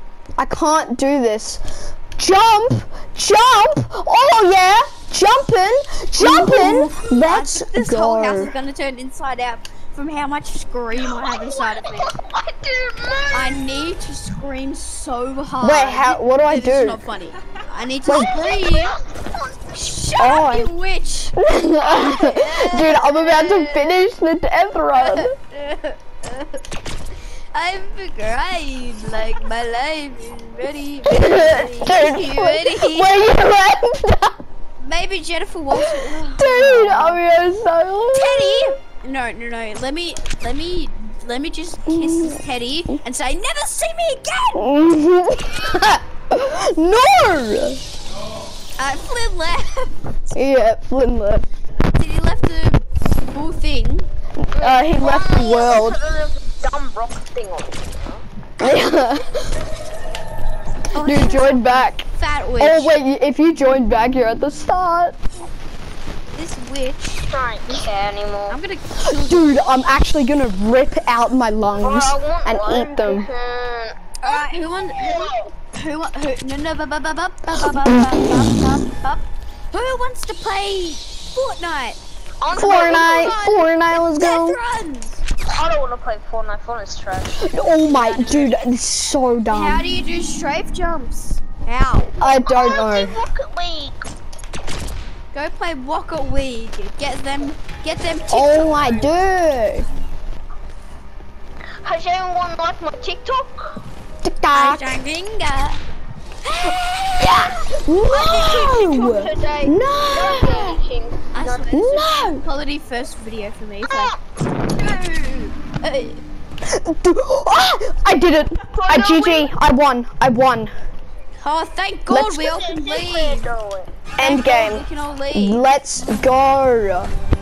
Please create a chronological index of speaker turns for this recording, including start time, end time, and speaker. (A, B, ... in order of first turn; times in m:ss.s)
0:00.4-0:08.5 A
0:06.2-0:12.1 B
0:11.1-0:13.7 C
0:13.3-0:19.0 B
0:15.6-0:17.0 A
0:18.0-0:18.4 A
0:18.3-0:19.6 C
0:19.7-0:24.1 B
0:20.2-0:20.7 A
0:21.4-0:25.3 A
0:24.9-0:26.6 B
0:27.5-0:33.1 B
0:31.1-0:34.3 A
0:34.8-0:37.2 B
0:35.7-0:38.8 A
0:38.1-0:44.6 B
0:41.9-0:42.4 A
0:44.6-0:47.8 A
0:48.8-0:50.1 B
0:50.3-0:51.4 A
0:51.9-0:54.1 B
0:54.4-0:56.0 A
0:54.6-0:58.2 C
0:58.6-0:59.6 A
1:00.9-1:02.9 B
1:01.0-1:02.0 A
1:02.6-1:05.1 A
1:06.3-1:07.8 B
1:07.3-1:08.6 C
1:08.5-1:09.6 B
1:09.0-1:13.3 A
1:11.8-1:15.5 C
1:14.2-1:22.0 B
1:17.6-1:18.5 A
1:22.4-1:23.7 C
1:22.5-1:24.6 A
1:22.6-1:23.0 B
1:24.2-1:25.2 B
1:25.4-1:27.5 C
1:27.4-1:29.8 A
1:27.9-1:28.5 B
1:29.5-1:32.1 B
1:32.2-1:34.0 C
1:32.2-1:33.2 A
1:35.3-1:39.2 B
1:38.3-1:39.8 A
1:41.8-1:43.8 C
1:44.2-1:45.0 A
1:44.5-1:45.8 B
1:46.6-1:47.5 B
1:47.2-1:50.8 A
1:48.1-1:49.3 B
1:48.7-1:51.7 C
1:51.3-1:54.1 B
1:51.7-1:52.4 A
1:53.9-1:54.2 C
1:54.7-1:56.2 B
1:56.7-2:00.7 A
1:58.7-1:59.5 C
2:01.4-2:03.5 B
2:02.1-2:02.4 A
2:02.1-2:04.1 C
2:04.2-2:05.6 B
2:04.2-2:07.1 A